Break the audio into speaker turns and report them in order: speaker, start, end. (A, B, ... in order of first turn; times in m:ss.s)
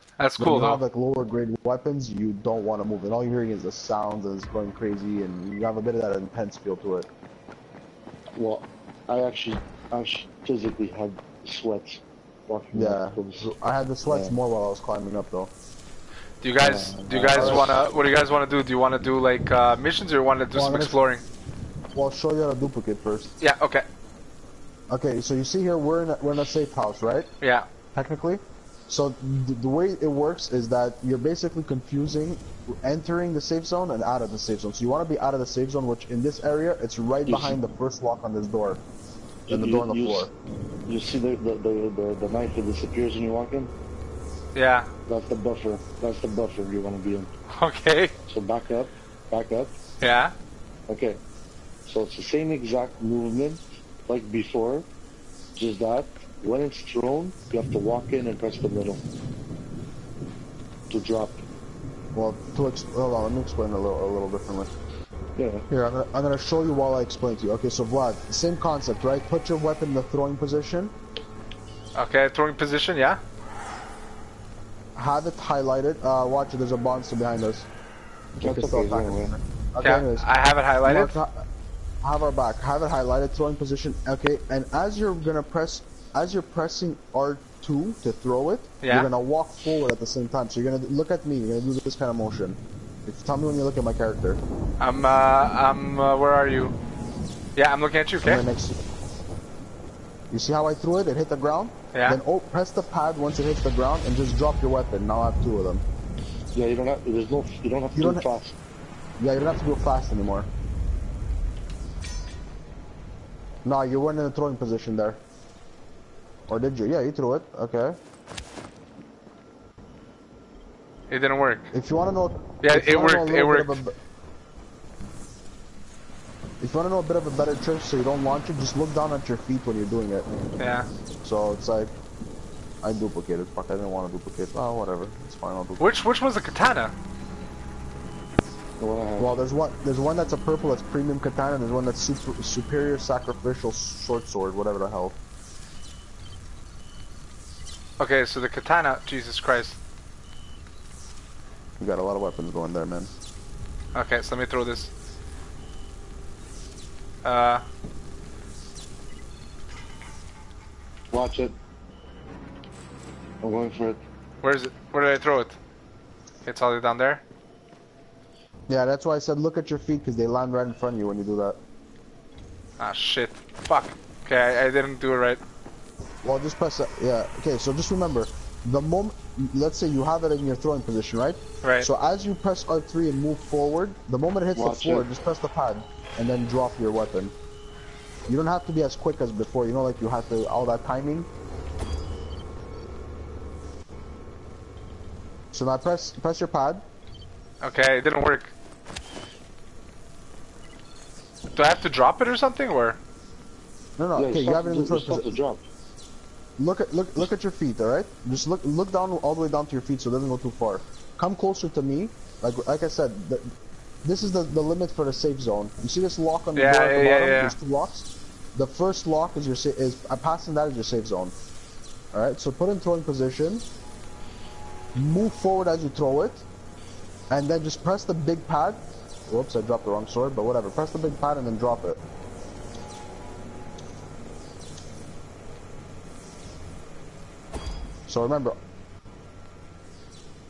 0:00.2-0:00.8 A
0:00.4-0:07.1 B
0:08.3-0:13.5 C
0:12.7-0:15.5 B
0:14.1-0:14.3 C
0:16.4-0:21.2 A
0:16.6-0:17.8 C
0:17.3-0:17.8 B
0:20.5-0:21.0 B
0:21.9-0:23.3 B
0:23.4-0:23.8 A
0:24.9-0:27.3 B
0:27.4-0:27.7 A
0:27.9-0:38.8 B
0:37.3-0:37.6 C
0:39.5-0:40.3 C
0:39.5-0:40.3 B
0:40.9-0:43.7 C
0:44.5-0:44.9 A
0:45.1-0:47.3 C
0:47.5-0:48.1 A
0:48.3-0:49.7 C
0:50.0-0:50.3 A
0:50.9-0:51.2 C
0:51.8-0:54.8 C
0:55.6-0:59.0 C
1:00.9-1:01.4 C
1:02.1-1:04.7 B
1:05.4-1:05.7 C
1:05.7-1:10.9 B
1:11.9-1:13.2 A
1:14.9-1:17.7 B
1:18.4-1:19.3 C
1:18.4-1:21.4 B
1:19.8-1:21.2 A
1:22.0-1:34.4 B
1:28.8-1:29.1 A
1:34.8-1:36.7 A
1:37.5-1:38.4 A
1:38.2-1:38.8 B
1:40.3-1:45.8 B
1:46.5-1:48.6 C
1:47.9-1:48.2 B
1:49.2-1:50.5 B
1:53.6-1:55.2 B
1:56.5-1:58.0 B
2:01.1-2:01.7 A
2:01.7-2:03.9 B
2:02.6-2:03.8 A
2:06.6-2:10.3 B
2:10.6-2:10.9 A
2:11.2-2:11.9 B
2:12.8-2:15.8 B
2:15.8-2:16.9 A
2:18.8-2:19.4 C
2:19.2-2:25.2 B
2:28.0-2:29.8 A
2:31.8-2:33.1 B
2:33.9-2:34.9 A
2:37.2-2:37.6 A
2:41.1-2:41.6 C
2:43.4-2:44.0 C
2:44.4-2:45.6 A
2:46.4-2:47.2 A
2:48.7-2:51.6 B
2:52.8-2:55.4 A
2:56.2-3:07.3 B
3:01.6-3:01.9 A
3:04.5-3:05.1 C
3:08.3-3:11.3 B
3:15.5-3:16.8 B
3:17.6-3:18.5 A
3:21.5-3:23.0 A
3:24.0-3:25.4 B
3:24.2-3:25.6 C
3:26.6-3:33.5 B
3:34.0-3:41.3 B
3:36.6-3:37.6 A
3:42.1-3:43.6 B
3:44.9-3:46.4 B
3:47.3-3:52.0 B
3:58.1-3:58.6 B